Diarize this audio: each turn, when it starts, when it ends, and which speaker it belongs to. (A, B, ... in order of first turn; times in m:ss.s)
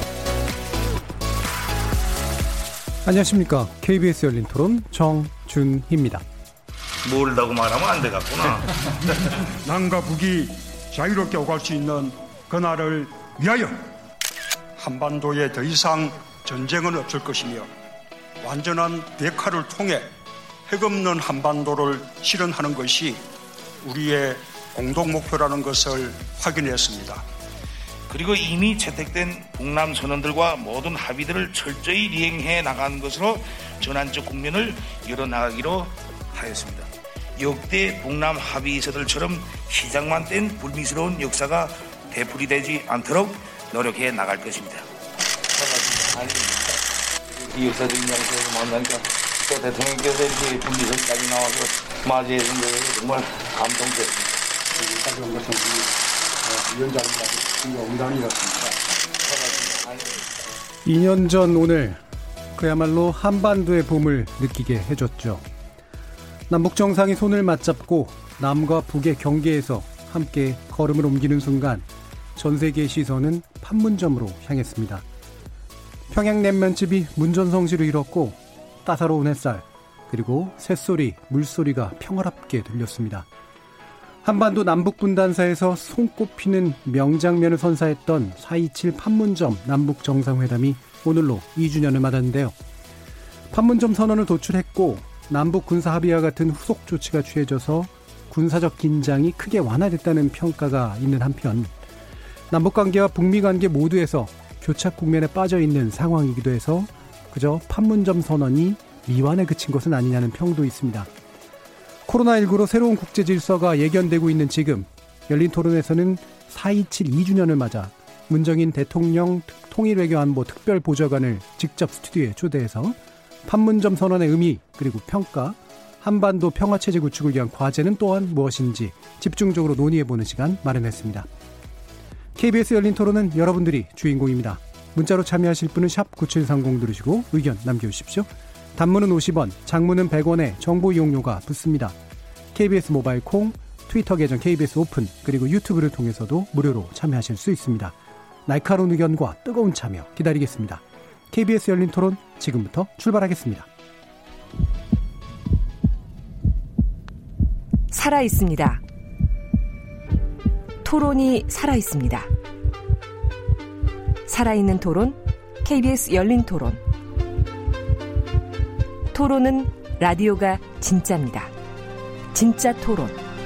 0:03.0-0:06.2 A
0:07.0-0:09.4 B
0:09.6-0:13.9 C
0:14.8-0:17.7 C
0:18.4-0:20.1 C
0:20.7-0:23.2 C
0:23.8-0:27.2 C
0:28.1-0:44.9 B
0:45.5-0:46.8 B
0:47.3-0:54.4 B
0:54.8-0:58.7 C
0:59.2-1:00.2 B
1:00.8-1:02.0 A
1:02.5-1:05.4 A
1:06.5-1:15.0 A
1:16.1-1:23.3 A
1:24.2-1:32.6 A
1:33.5-1:41.7 A
1:42.5-1:51.1 A
1:52.0-2:11.3 A
2:12.3-2:22.0 A
2:22.5-2:27.9 A
2:28.4-2:33.7 A
2:37.9-2:38.8 D
2:40.8-2:42.3 D
2:44.2-2:46.8 D
2:49.1-2:51.5 D
2:52.3-2:53.2 D